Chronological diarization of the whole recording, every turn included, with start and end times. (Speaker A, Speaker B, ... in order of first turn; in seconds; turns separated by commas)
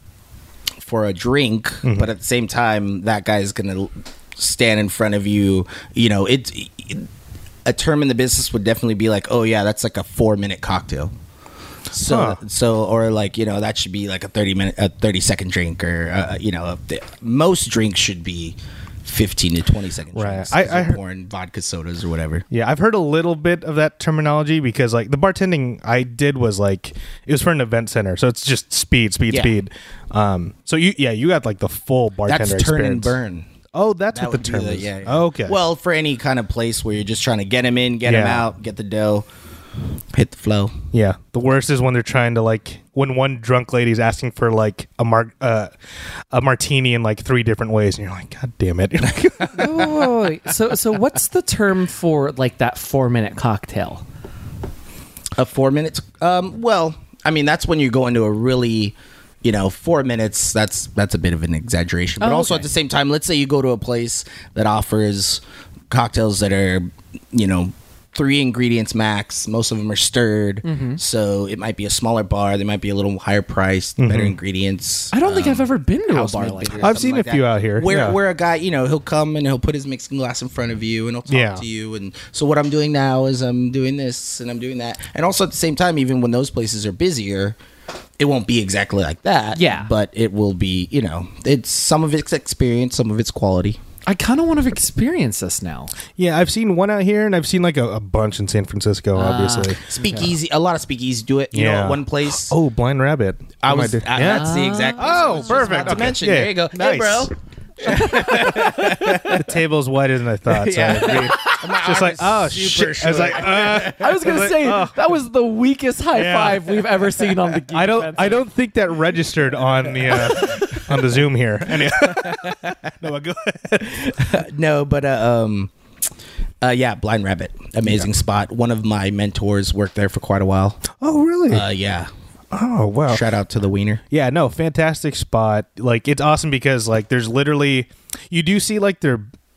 Speaker A: 0.8-7.1, Speaker B: 1.8-2.1, Speaker A: 7.7-11.1, Speaker A: 11.9-22.4, Speaker B: 12.1-12.4, Speaker B: 20.1-21.0, Speaker B: 22.5-33.2, Speaker A: 32.3-33.5, Speaker B: 33.7-35.6, Speaker A: 34.1-39.3, Speaker B: 38.1-38.5, Speaker A: 40.1-40.8, Speaker B: 40.9-45.7, Speaker B: 46.3-50.0, Speaker C: 49.5-54.0, Speaker A: 55.4-87.6, Speaker C: 62.2-62.7, Speaker C: 70.7-71.0, Speaker B: 74.0-74.4, Speaker C: 75.1-76.9, Speaker B: 76.8-78.2, Speaker B: 81.3-81.6, Speaker A: 88.2-93.8, Speaker C: 89.5-89.9, Speaker C: 94.1-95.9, Speaker B: 96.2-99.8, Speaker C: 99.2-100.3, Speaker A: 99.9-102.5, Speaker B: 101.5-107.3, Speaker A: 103.6-109.5, Speaker C: 104.2-106.2, Speaker C: 107.8-109.2, Speaker B: 107.8-115.0, Speaker A: 110.5-114.4, Speaker C: 111.0-111.5, Speaker C: 113.4-118.4, Speaker B: 116.1-124.2, Speaker A: 120.0-120.7, Speaker C: 120.2-120.8, Speaker A: 121.8-122.9, Speaker A: 123.8-125.7, Speaker A: 126.6-130.8, Speaker B: 131.0-131.7, Speaker A: 131.5-132.1, Speaker B: 132.5-133.2, Speaker A: 133.1-134.0, Speaker B: 134.1-139.2